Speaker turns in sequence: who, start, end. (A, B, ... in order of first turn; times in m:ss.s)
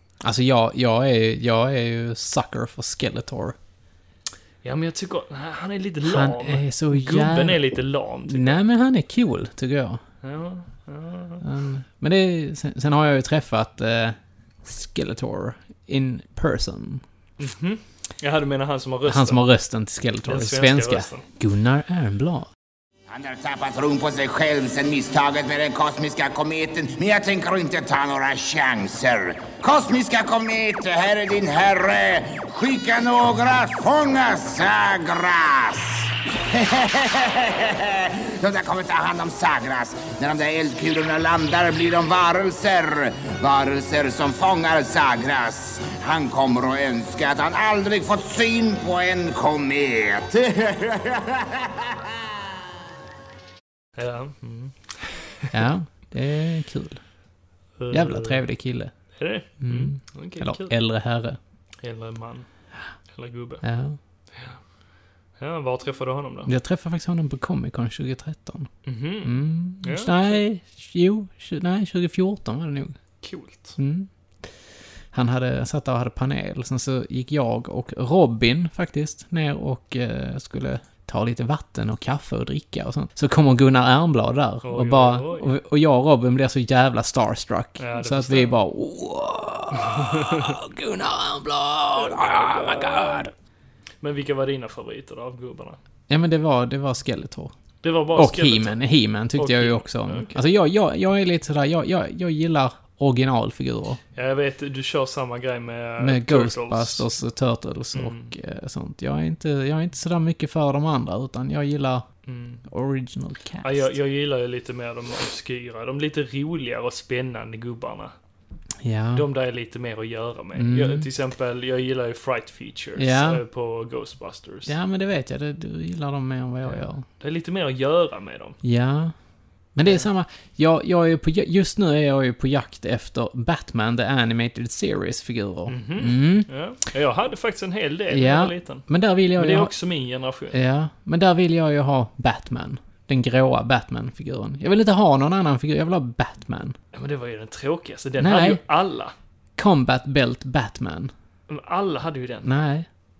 0:00.2-0:03.6 A
0:04.6-0:08.6 B
0:06.0-0:07.6 A
0:08.3-0:10.0 A
0:10.2-0:11.4 B
0:11.4-0:17.0 A
0:17.4-0:19.4 B
0:19.1-0:22.5 A
0:20.3-0:21.2 B
0:23.1-0:52.0 C
0:54.0-0:55.5 B
0:55.5-0:57.0 A
0:57.8-0:58.4 B
0:57.9-0:58.9 A
0:59.2-1:00.7 B
0:59.6-1:01.4 A
1:01.8-1:02.5 B
1:03.1-1:03.6 B
1:03.6-1:04.0 A
1:05.4-1:06.5 B
1:06.5-1:08.7 A
1:08.9-1:10.4 B
1:09.2-1:12.9 A
1:13.2-1:13.8 B
1:13.8-1:14.1 A
1:15.1-1:33.3 A
1:24.6-1:25.5 B
1:27.8-1:28.6 B
1:29.7-1:30.6 B
1:31.9-1:33.3 B
1:34.0-1:35.8 B
1:36.1-1:37.5 A
1:37.8-1:38.8 B
1:38.1-1:44.0 A
1:39.4-1:40.4 B
1:44.2-1:47.1 B
1:46.0-1:52.1 A
1:47.9-1:48.3 B
1:52.3-1:52.6 B
1:52.7-1:53.9 A
1:53.6-1:58.1 B
1:58.8-1:59.2 A
1:59.2-2:04.7 B
2:00.6-2:01.1 A
2:03.0-2:03.4 A
2:04.7-2:07.0 A
2:06.6-2:08.6 B
2:08.6-2:09.1 A
2:09.8-2:16.5 A
2:15.7-2:18.8 B
2:18.1-2:19.7 A
2:19.4-2:20.6 B
2:20.5-2:26.8 A
2:26.9-2:29.1 B
2:28.2-2:28.6 A
2:29.6-2:31.1 A
2:31.5-2:32.5 B
2:32.4-2:32.9 A